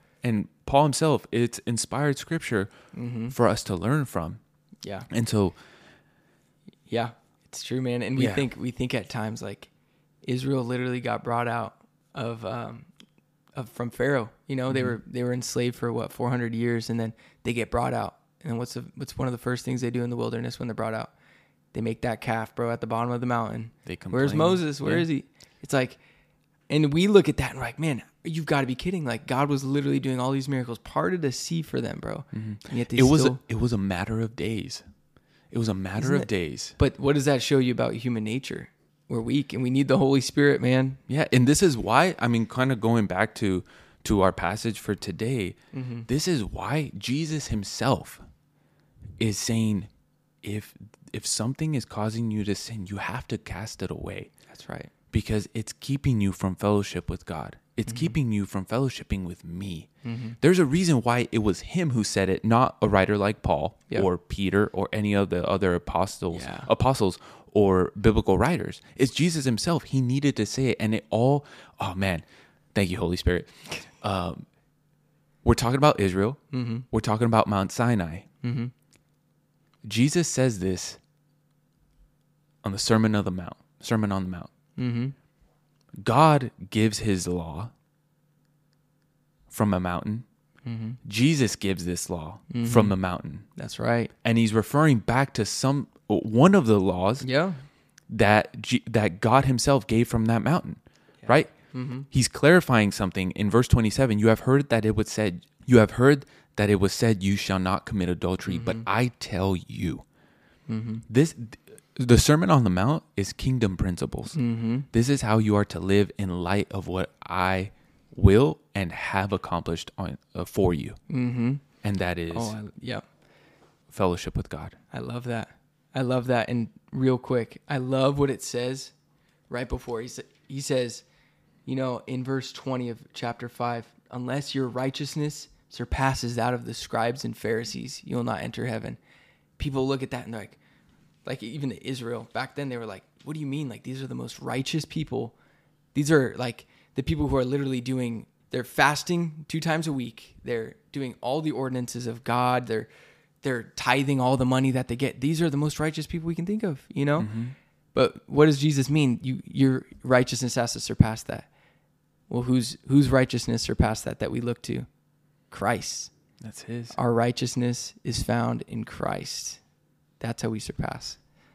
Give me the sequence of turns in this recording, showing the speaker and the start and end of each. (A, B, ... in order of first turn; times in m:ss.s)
0:00.2-0:02.7 A
0:02.9-0:03.3 B
0:03.3-0:04.4 A
0:04.8-0:05.1 B
0:05.1-0:05.6 A
0:06.9-0:09.7 B
0:08.2-0:08.4 A
0:10.2-0:12.9 B
0:13.6-0:21.1 B
0:14.7-0:15.0 A
0:21.7-0:26.0 B
0:23.9-0:25.1 A
0:26.7-0:33.4 B
0:32.3-0:34.8 A
0:35.5-0:36.8 A
0:36.0-0:41.0 B
0:41.1-0:48.2 A
0:45.7-0:46.1 B
0:49.2-0:49.9 A
0:50.4-0:54.3 A
0:54.5-0:54.9 B
0:55.1-0:59.9 A
0:57.9-0:58.2 B
1:00.0-1:00.4 B
1:00.4-1:12.2 A
1:06.3-1:06.7 B
1:12.7-1:13.5 A
1:14.0-1:14.4 A
1:15.4-1:18.3 A
1:16.5-1:16.9 B
1:18.4-1:18.7 B
1:19.8-1:21.0 A
1:22.6-1:24.5 A
1:24.8-1:25.1 B
1:26.0-1:27.7 A
1:29.5-1:30.3 A
1:30.6-1:31.0 B
1:31.0-1:33.5 A
1:32.5-1:33.0 B
1:33.6-1:34.1 B
1:34.2-1:37.3 A
1:37.2-1:37.6 B
1:38.1-1:41.5 A
1:41.2-1:42.1 B
1:42.1-1:50.0 A
1:48.5-1:48.8 B
1:50.7-1:51.0 B
1:51.1-1:54.4 A
1:54.3-1:54.9 B
1:54.9-2:01.0 A
2:01.1-2:01.6 B
2:01.8-2:02.6 A
2:02.3-2:03.0 B
2:03.9-2:04.8 A
2:04.9-2:08.9 B
2:09.5-2:11.0 B
2:11.6-2:19.0 B
2:19.6-2:20.6 B
2:21.2-2:25.3 B
2:25.9-2:32.9 B
2:33.4-2:37.3 B
2:37.2-2:37.6 A
2:37.9-2:41.5 B
2:42.3-2:44.9 B
2:45.5-2:46.1 B
2:46.4-2:47.0 A
2:46.9-2:49.6 B
2:50.2-2:51.2 B